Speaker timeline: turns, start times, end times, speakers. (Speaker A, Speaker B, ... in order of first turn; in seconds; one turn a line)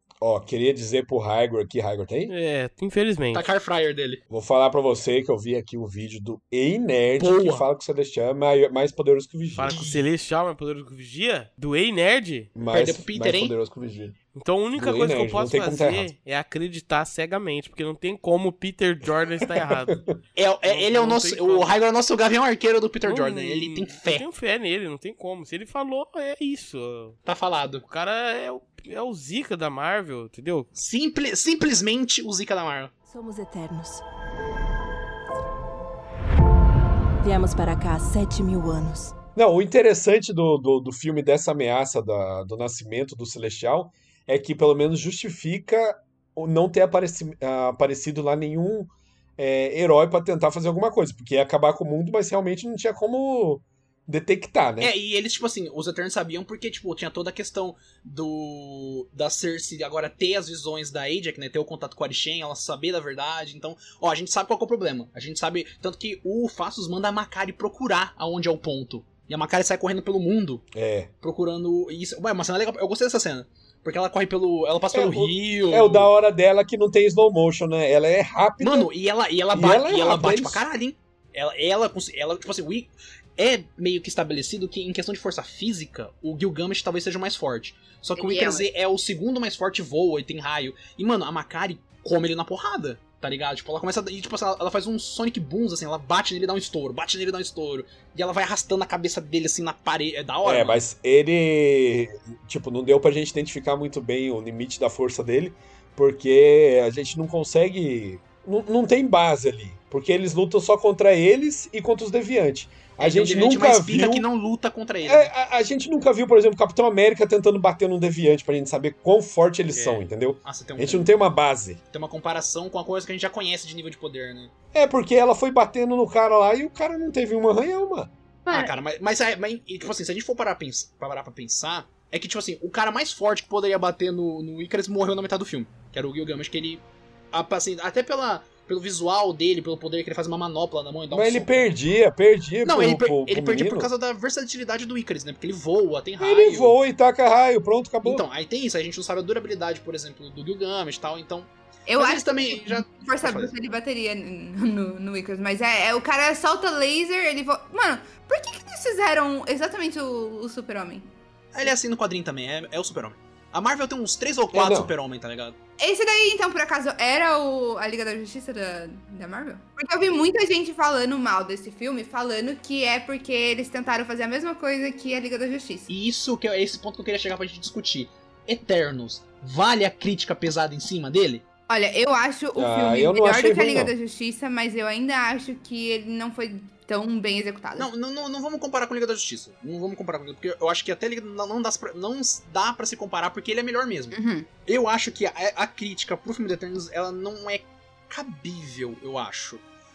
Speaker A: 0.2-2.3
Speaker B: 2.3-3.5
Speaker C: 3.3-4.2
Speaker A: 4.3-9.8
Speaker C: 7.2-7.7
Speaker B: 9.5-12.5
Speaker C: 9.7-10.0
Speaker A: 12.6-14.2
Speaker C: 12.7-13.5
Speaker B: 14.3-20.0
Speaker A: 14.8-16.1
Speaker A: 19.4-20.1
Speaker C: 20.4-24.2
Speaker B: 20.6-21.8
Speaker B: 23.0-27.2
Speaker C: 27.2-27.8
Speaker B: 27.8-30.7
Speaker C: 30.7-32.9
Speaker D: 33.1-34.0
Speaker D: 37.2-39.1
Speaker A: 39.4-54.9
Speaker C: 54.8-70.6
Speaker A: 70.7-71.1
Speaker C: 71.2-76.1
Speaker A: 74.9-78.9
Speaker C: 78.6-100.8
Speaker A: 79.5-80.6
Speaker E: 88.2-88.7
Speaker A: 100.4-114.2
Speaker C: 113.0-115.3
Speaker A: 115.0-121.8
Speaker B: 119.7-120.0
Speaker C: 120.4-121.1
Speaker C: 121.9-124.5
Speaker A: 124.7-128.1
Speaker E: 128.4-128.7
Speaker C: 128.5-141.7
Speaker A: 141.1-143.9
Speaker C: 142.6-146.8
Speaker A: 146.2-148.2
Speaker C: 148.0-153.5
Speaker E: 151.9-161.1
Speaker C: 161.5-165.5
Speaker A: 164.5-164.9
Speaker E: 165.8-175.9
Speaker C: 175.9-181.4
Speaker E: 181.7-187.9
Speaker A: 182.6-183.9
Speaker C: 187.8-199.6
Speaker E: 194.1-194.5